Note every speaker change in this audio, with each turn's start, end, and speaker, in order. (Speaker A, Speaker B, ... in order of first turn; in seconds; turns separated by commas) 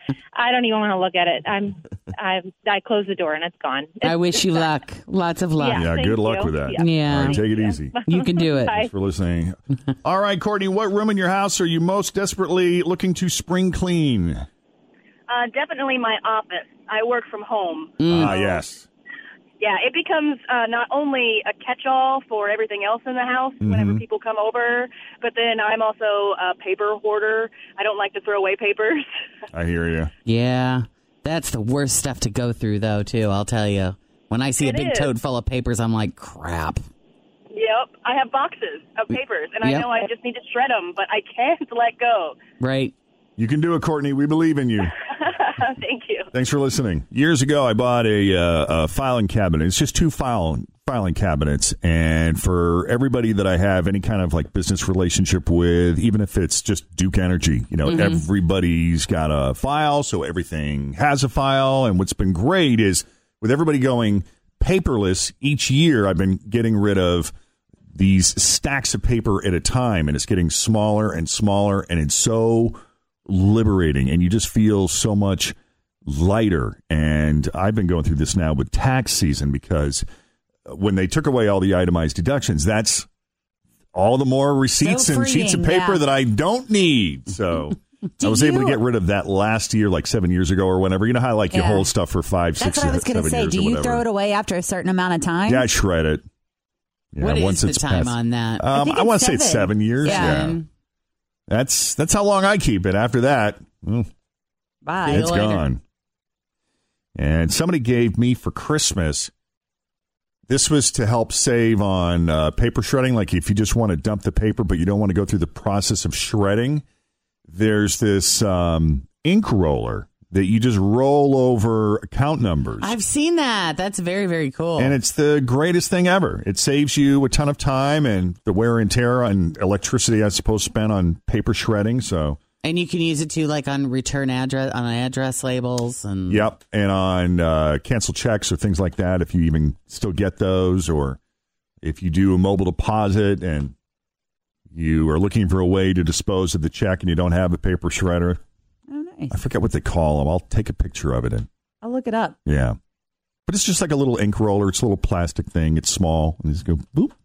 Speaker A: 0.4-4.6, Speaker B: 4.0-5.9, Speaker A: 5.6-7.4, Speaker C: 5.8-8.0, Speaker B: 6.8-7.5, Speaker B: 8.1-8.9, Speaker A: 8.1-8.8, Speaker C: 8.8-14.4, Speaker D: 15.3-18.6, Speaker B: 18.0-18.4, Speaker C: 18.1-18.9, Speaker D: 19.6-29.1, Speaker C: 23.6-24.0, Speaker C: 29.5-30.1, Speaker B: 30.2-36.8, Speaker D: 34.6-35.1, Speaker D: 37.5-42.4, Speaker B: 39.1-39.9, Speaker B: 42.6-42.9, Speaker C: 43.4-44.9, Speaker D: 45.2-46.3, Speaker C: 46.3-67.3, Speaker B: 57.9-58.2, Speaker C: 67.9-75.5, Speaker C: 76.1-80.0, Speaker C: 80.7-83.1, Speaker C: 83.9-94.1, Speaker E: 84.8-86.0, Speaker E: 88.2-88.8, Speaker E: 91.5-91.9, Speaker E: 92.6-95.7, Speaker C: 95.5-96.2, Speaker C: 97.1-100.6, Speaker B: 97.2-98.7, Speaker E: 98.7-100.4, Speaker B: 100.0-100.7, Speaker C: 101.5-104.1, Speaker E: 104.8-105.4, Speaker C: 105.0-105.8, Speaker B: 105.1-105.6, Speaker C: 107.2-109.3, Speaker C: 110.5-116.8, Speaker C: 117.5-123.0, Speaker B: 122.8-125.0, Speaker C: 124.8-132.4, Speaker B: 132.6-136.5, Speaker C: 136.3-141.2, Speaker C: 141.8-143.7, Speaker C: 144.7-148.4, Speaker E: 148.9-149.4, Speaker C: 149.3-151.5, Speaker E: 151.8-152.4, Speaker C: 152.4-152.8, Speaker C: 153.5-157.2